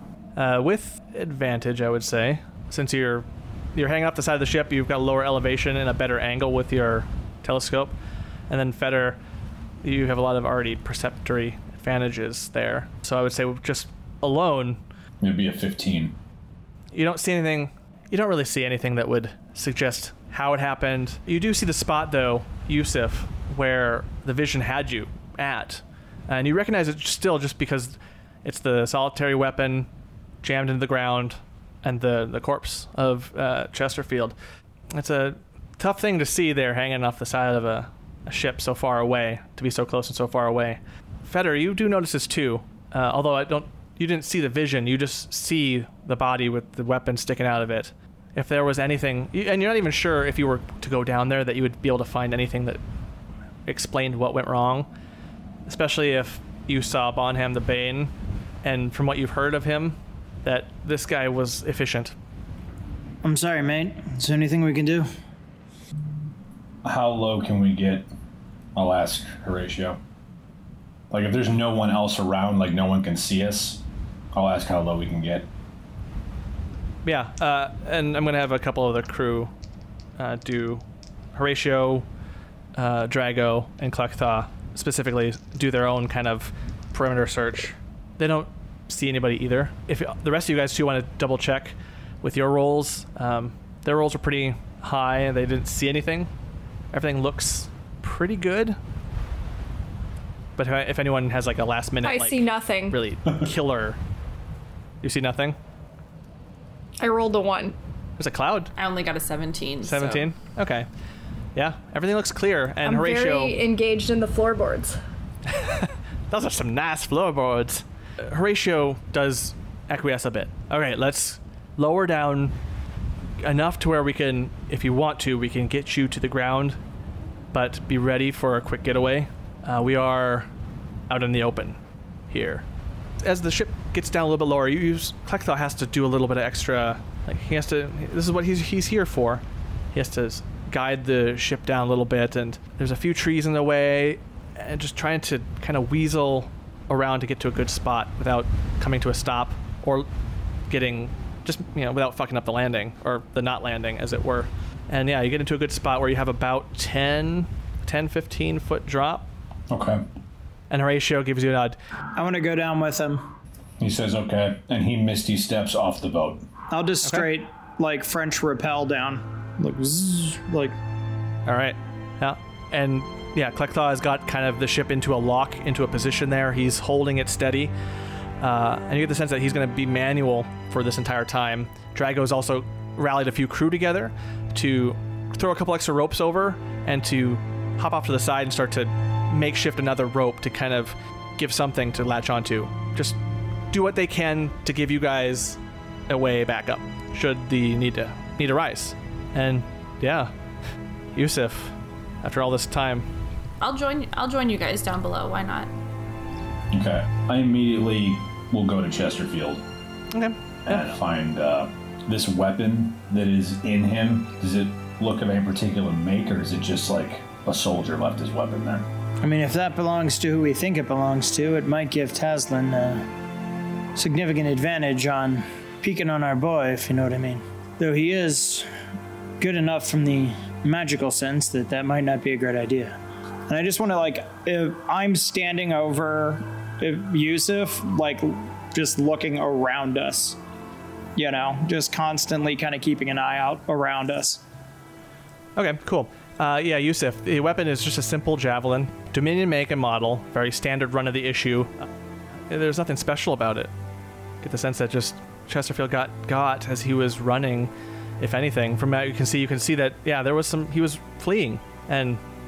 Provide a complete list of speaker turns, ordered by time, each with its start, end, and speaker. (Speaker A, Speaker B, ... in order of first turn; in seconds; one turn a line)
Speaker A: 0.4-8.0
Speaker A: 8.5-9.2
Speaker A: 9.8-14.8
Speaker B: 15.2-16.2
Speaker A: 16.9-29.9
Speaker A: 30.4-34.4
Speaker A: 34.9-52.8
Speaker A: 53.7-54.9
Speaker A: 55.7-58.1
Speaker A: 58.6-62.1
Speaker C: 63.2-65.1
Speaker B: 66.8-68.1
Speaker B: 68.7-70.0
Speaker B: 71.1-75.5
Speaker A: 77.0-79.5
Speaker A: 80.2-80.8
Speaker A: 81.3-82.1
Speaker A: 82.8-96.3
Speaker A: 96.9-98.8
Speaker A: 100.6-104.0
Speaker D: 102.0-103.0
Speaker A: 105.0-105.6
Speaker D: 107.0-107.8
Speaker A: 108.2-108.7
Speaker E: 108.8-110.3
Speaker A: 109.8-110.9
Speaker A: 111.5-113.6
Speaker D: 112.8-115.0
Speaker A: 115.5-122.5
Speaker A: 123.4-126.8
Speaker A: 127.5-130.5
Speaker A: 131.1-131.8
Speaker A: 132.3-132.7
Speaker A: 133.2-150.1
Speaker A: 150.7-159.3
Speaker B: 159.7-160.0
Speaker A: 160.7-161.8
Speaker C: 162.2-163.3
Speaker B: 163.8-166.5
Speaker C: 166.7-170.8
Speaker A: 171.5-177.7
Speaker A: 178.4-193.2
Speaker A: 193.7-200.3
Speaker A: 201.2-203.1
Speaker E: 203.6-205.7
Speaker B: 206.7-209.6
Speaker A: 210.1-210.8
Speaker B: 210.7-218.9
Speaker C: 219.2-223.1
Speaker C: 224.0-228.7
Speaker C: 229.4-240.4
Speaker C: 241.2-244.4
Speaker A: 245.6-251.9
Speaker A: 252.5-253.7
Speaker A: 254.4-262.2